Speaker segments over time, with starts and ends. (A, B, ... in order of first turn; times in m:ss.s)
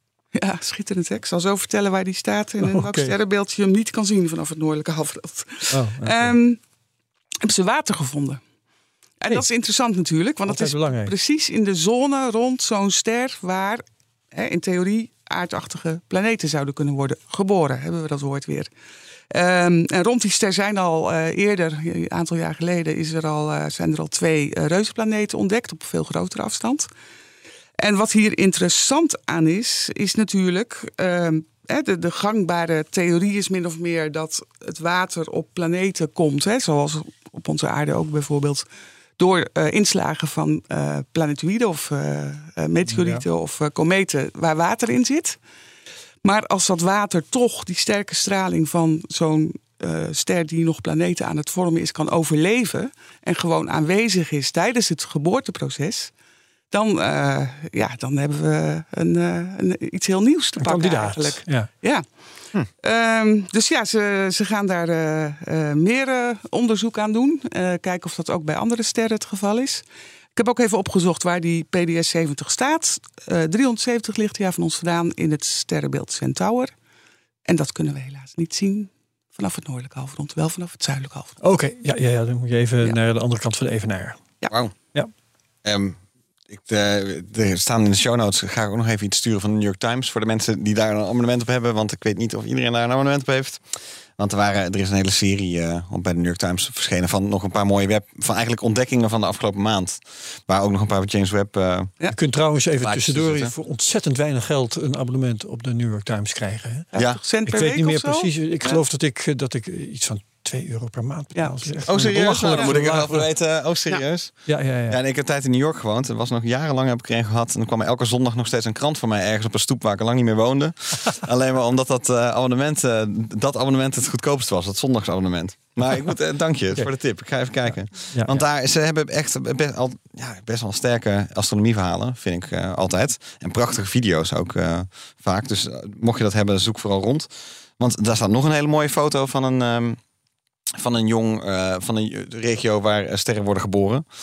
0:00.3-0:06.6 A
0:02.6-0:03.1 B
0:05.7-0:06.4 B
0:07.4-0:08.4 A
0:09.2-0:18.7 A
0:10.5-0:11.1 B
0:19.3-0:26.9 A
0:27.8-0:38.6 A
0:39.2-0:45.4 A
0:42.9-0:43.2 B
0:46.2-0:56.1 A
0:56.7-1:02.0 A
1:00.6-1:01.7 B
1:02.8-1:09.8 A
1:10.3-1:16.7 A
1:17.4-1:21.4 A
1:21.4-1:24.2 B
1:24.5-1:24.7 C
1:25.6-1:26.0 C
1:26.5-1:33.6 C
1:34.2-1:41.9 C
1:42.1-1:46.9 B
1:42.8-1:43.5 C
1:46.9-1:48.8 A
1:46.9-1:47.2 C
1:47.4-1:53.3 B
1:51.3-1:52.8 A
1:51.8-2:20.0 C
1:54.5-1:55.0 B
2:08.1-2:08.4 B
2:20.7-2:24.0 C